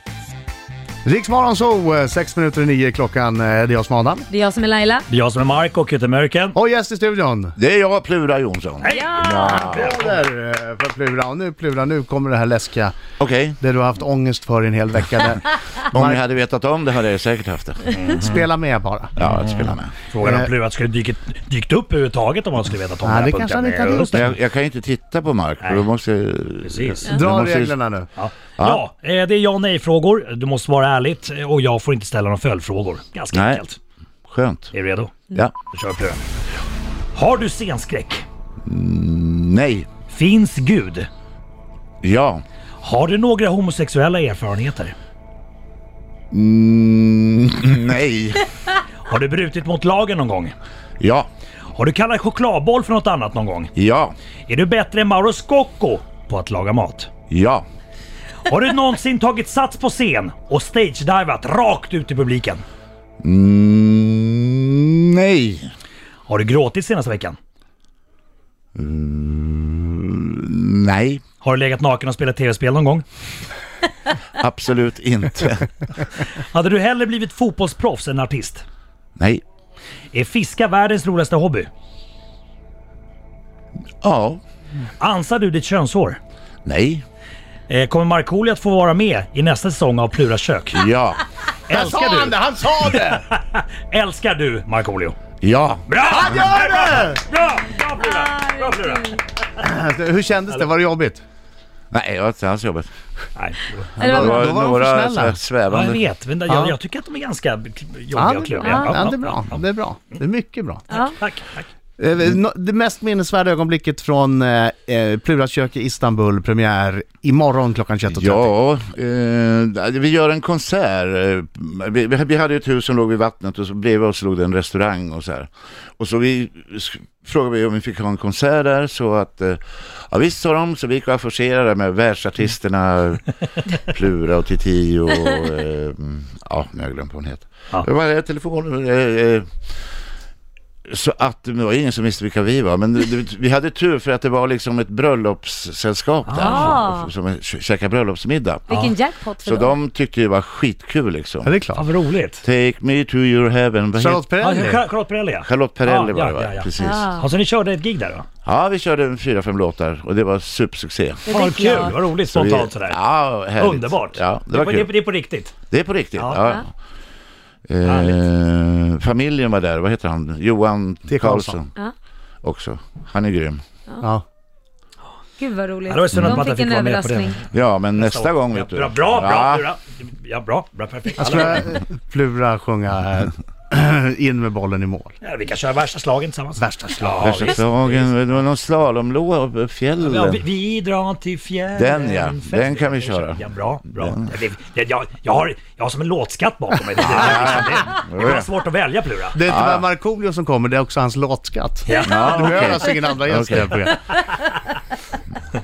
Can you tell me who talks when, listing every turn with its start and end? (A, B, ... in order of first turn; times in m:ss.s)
0:01.0-0:04.3 A
0:04.3-0:05.1 B
0:05.1-0:06.6 C
0:06.5-0:07.6 A
0:07.6-0:10.0 D
0:08.8-0:10.1 C
0:08.9-0:09.4 B
0:09.4-0:12.9 A
0:13.2-0:13.6 D
0:13.6-0:16.2 A
0:15.9-0:17.9 D
0:17.9-0:18.5 C
0:18.1-0:19.2 A
0:19.2-0:19.9 D
0:19.2-0:24.3 C
0:20.2-0:20.5 A
0:23.0-0:24.3 A
0:24.1-0:27.8 D
0:25.6-0:25.9 C
0:26.6-0:27.1 C
0:27.1-0:28.1 A
0:28.2-0:33.8 C
0:28.6-0:28.8 D
0:33.3-0:33.6 D
0:34.3-0:34.7 D
0:34.7-0:35.1 C
0:35.7-0:36.2 C
0:37.1-0:38.2 C
0:38.6-0:39.9 D
0:40.1-0:41.1 C
0:42.0-0:42.4 D
0:42.8-0:44.9 C
0:46.3-0:48.5 D
0:49.0-0:50.5 C
0:51.0-0:51.3 D
0:51.7-0:53.7 C
0:53.7-0:54.2 D
0:54.5-0:57.1 C
0:57.3-0:57.6 D
0:58.4-1:02.6 C
1:03.2-1:05.7 D
1:06.3-1:07.4 C
1:08.7-1:11.2 D
1:11.4-1:13.0 C
1:14.3-1:15.7 D
1:16.2-1:18.6 C
1:19.2-1:19.4 D
1:20.1-1:21.7 C
1:24.0-1:24.4 D
1:25.0-1:26.2 C
1:26.6-1:27.0 D
1:27.7-1:30.8 C
1:30.7-1:31.2 D
1:31.7-1:35.2 C
1:31.7-1:33.2 A
1:35.4-1:35.9 D
1:35.9-1:39.2 C
1:36.0-1:37.2 A
1:37.8-1:39.2 B
1:39.6-1:41.2 A
1:41.9-1:42.9 D
1:43.3-1:43.9 C
1:44.0-1:45.4 A
1:44.0-1:44.4 B
1:44.0-1:46.0 D
1:45.7-1:49.6 C
1:46.5-1:46.8 A
1:48.1-1:51.0 A
1:48.6-1:48.9 B
1:50.9-1:51.7 C
1:52.0-1:58.5 A
1:58.1-2:19.6 D
2:20.9-2:28.7 D
2:26.2-2:26.8 C
2:26.4-2:27.1 B
2:28.7-2:28.9 C
2:28.7-2:29.7 B
2:29.4-2:31.6 D
2:31.4-2:31.9 A
2:31.7-2:32.4 C
2:32.4-2:34.3 D
2:34.0-2:34.8 A
2:34.4-2:38.2 C
2:35.4-2:37.1 D
2:36.8-2:37.3 B
2:38.4-2:44.9 D
2:41.2-2:41.9 B
2:41.3-2:45.5 C
2:45.7-2:46.7 D
2:46.2-2:46.5 C
2:47.7-2:51.7 D
2:47.8-2:48.2 C
2:51.1-2:51.6 A
2:52.4-2:53.6 D
2:55.4-2:57.4 B
2:55.9-3:01.8 C
2:57.5-2:59.7 D
3:01.2-3:05.1 A
3:05.2-3:08.4 C
3:06.6-3:07.6 A
3:07.2-3:10.4 D
3:10.0-3:19.4 C
3:11.8-3:14.3 D
3:17.0-3:18.5 D
3:19.3-3:24.0 A
3:19.4-3:19.9 D
3:21.9-3:22.8 C
3:22.0-3:24.0 D